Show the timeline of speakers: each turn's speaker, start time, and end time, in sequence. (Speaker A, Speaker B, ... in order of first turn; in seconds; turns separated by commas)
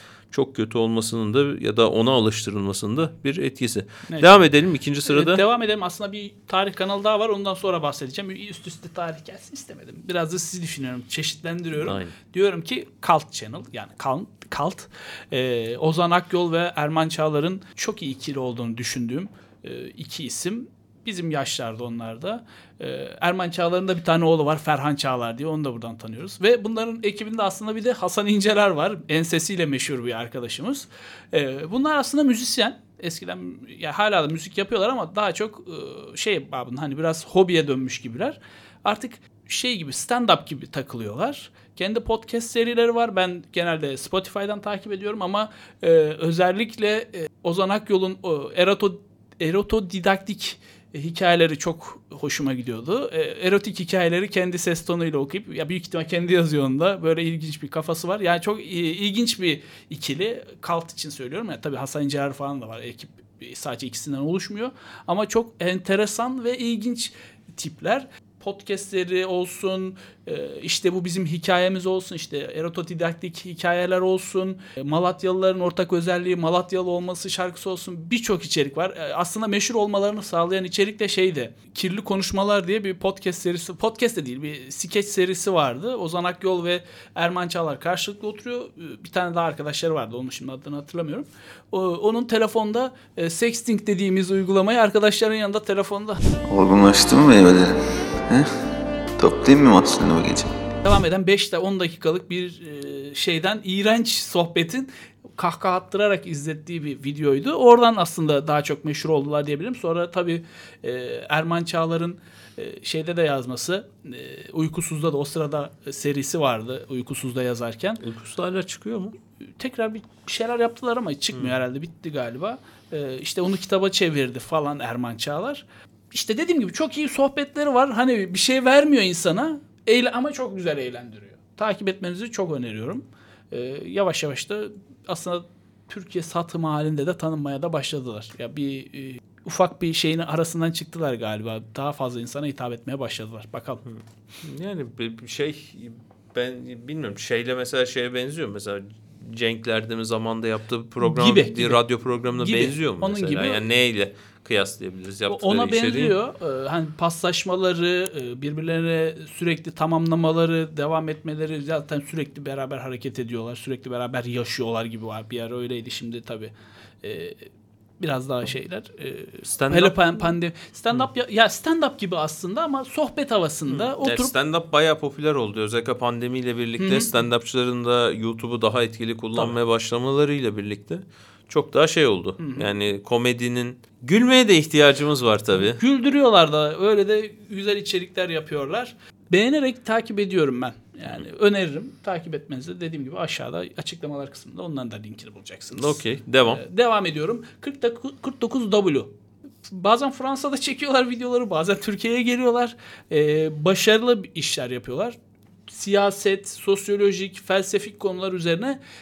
Speaker A: 0.3-5.4, Speaker B: 4.1-4.5, Speaker B: 5.1-96.2, Speaker A: 11.8-12.2, Speaker C: 96.5-98.5, Speaker C: 99.2-100.5, Speaker B: 100.8-118.0, Speaker A: 118.0-119.2, Speaker B: 119.6-143.8, Speaker A: 143.8-156.2, Speaker B: 151.0-153.6, Speaker B: 155.3-167.4, Speaker B: 168.0-174.3, Speaker A: 169.4-170.0, Speaker A: 173.7-185.8, Speaker B: 176.8-177.1, Speaker B: 182.4-182.7, Speaker B: 185.6-199.1, Speaker A: 195.7-196.6, Speaker B: 199.7-205.2, Speaker B: 205.7-208.8